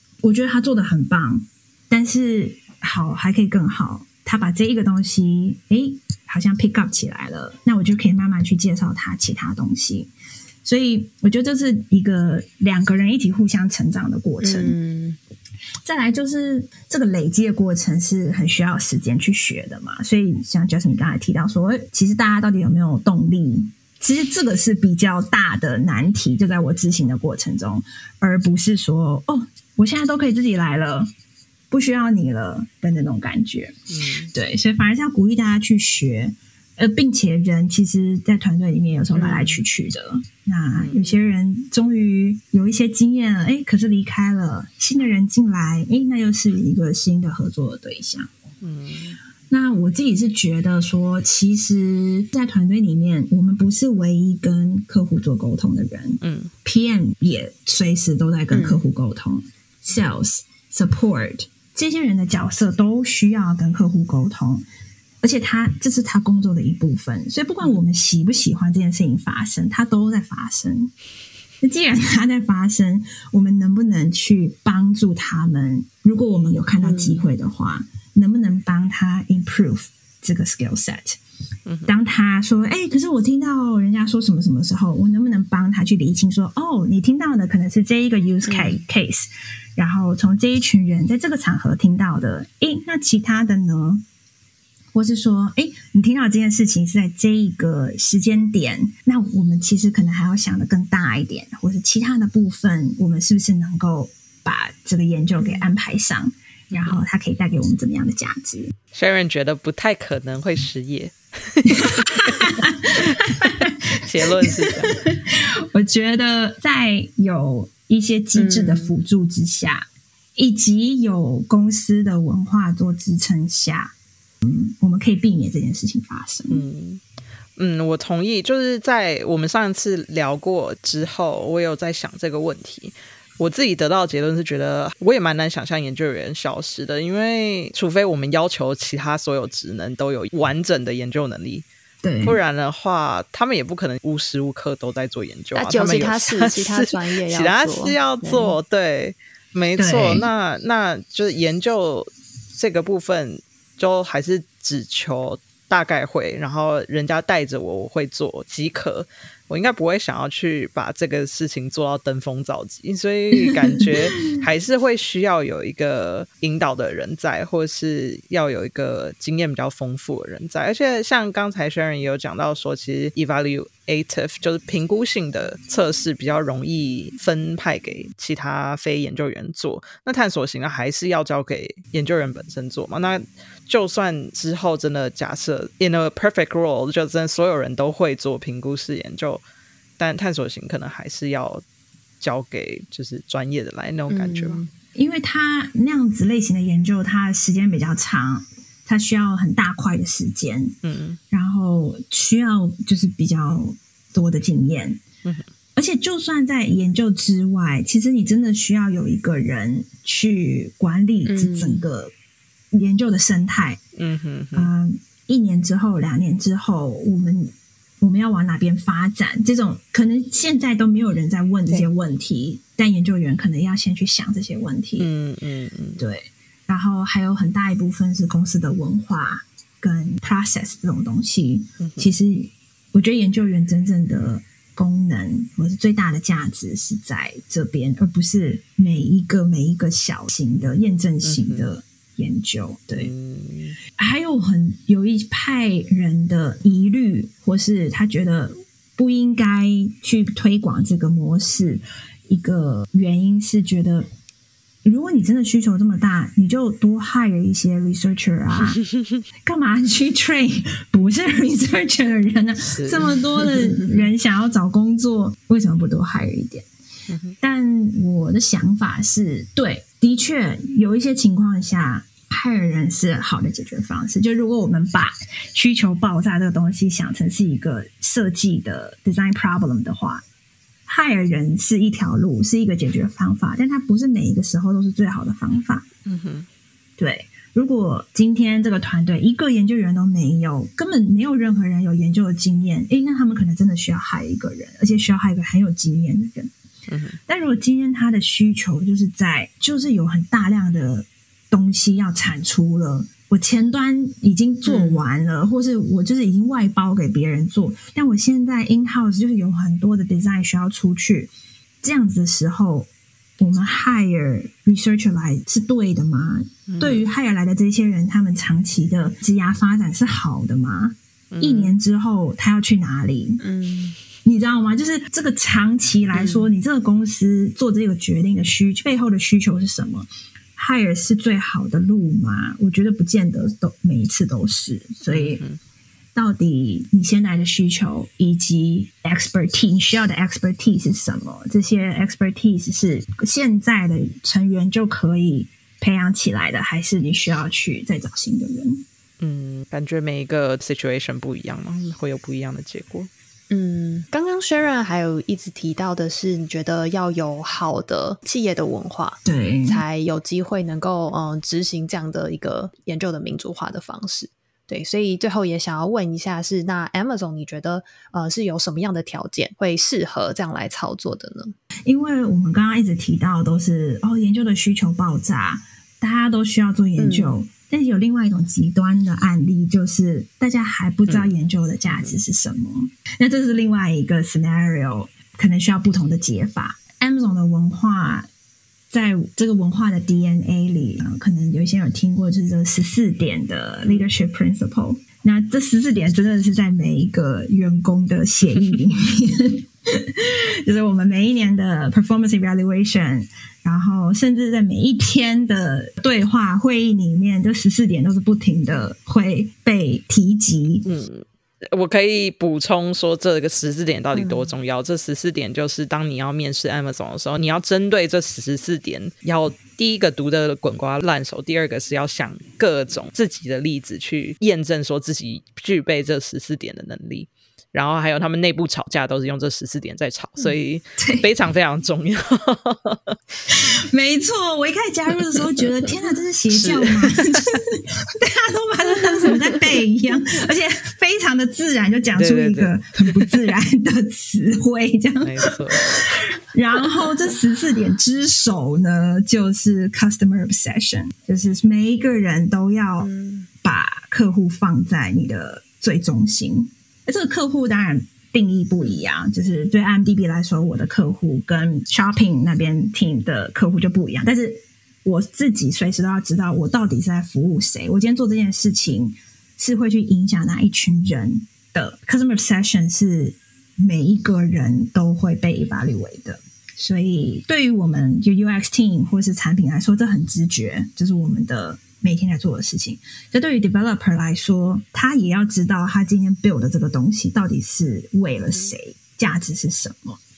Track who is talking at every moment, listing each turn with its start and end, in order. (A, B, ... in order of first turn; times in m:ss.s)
0:00.2-0:10.1 A
0:10.6-0:14.8 A
0:14.4-0:15.2 B
0:15.8-0:31.1 A
0:31.7-0:33.8 A
0:33.9-0:34.3 C
0:34.3-0:48.3 A
0:39.2-0:39.6 B
0:39.2-0:39.4 C
0:40.8-0:41.2 C
0:48.6-0:49.2 C
0:49.5-1:04.6 A
0:56.2-0:56.5 C
0:58.5-0:58.8 B
1:05.2-1:10.9 A
1:11.6-1:21.2 A
1:16.8-1:17.2 B
1:21.7-1:22.0 C
1:21.9-1:34.0 A
1:28.5-1:28.8 B
1:34.9-1:48.7 A
1:45.4-1:45.7 B
1:46.7-1:47.0 C
1:48.9-1:55.0 C
1:51.7-2:06.7 A
1:58.4-1:58.9 B
2:06.5-2:07.0 C
2:07.6-2:21.7 C
2:22.0-2:22.4 A
2:22.2-3:09.4 C
2:25.6-2:28.6 B
2:29.8-2:30.3 A
2:43.5-2:44.4 A
3:10.0-3:11.6 C
3:12.2-3:14.6 C
3:14.1-3:14.7 B
3:15.0-3:20.8 A
3:20.8-3:21.2 C
3:21.3-3:25.0 A
3:25.8-3:32.1 A
3:31.2-3:31.9 B
3:32.7-3:33.8 A
3:34.0-3:34.7 C
3:34.5-3:45.1 A
3:45.0-3:46.0 C
3:46.0-4:03.1 A
3:51.8-3:52.1 C
4:01.2-4:01.7 C
4:02.9-4:03.8 C
4:04.0-4:14.1 A
4:14.8-4:18.8 A
4:18.6-4:19.2 C
4:19.4-4:26.7 A
4:22.8-4:23.5 C
4:27.1-4:27.4 C
4:27.4-4:40.2 A
4:40.9-4:45.9 A
4:46.1-4:46.5 C
4:47.0-4:56.5 A
4:56.9-4:57.2 C
4:57.3-5:23.4 A
5:04.6-5:05.0 B
5:16.7-5:17.0 C
5:21.3-5:21.8 C
5:23.4-5:24.0 B
5:24.2-5:35.4 A
5:26.2-5:26.4 B
5:35.1-5:35.6 C
5:36.2-5:48.8 A
5:49.2-5:53.1 C
5:53.5-6:11.6 B
5:59.2-5:59.8 A
6:11.9-6:28.3 A
6:17.0-6:17.4 B
6:28.9-6:50.9 A
6:50.8-7:13.2 C
6:54.1-6:54.6 B
7:11.0-7:11.3 A
7:13.5-7:33.1 A
7:16.5-7:17.6 C
7:22.2-7:23.4 C
7:25.2-7:26.1 C
7:33.0-7:33.5 B
7:33.6-8:10.2 A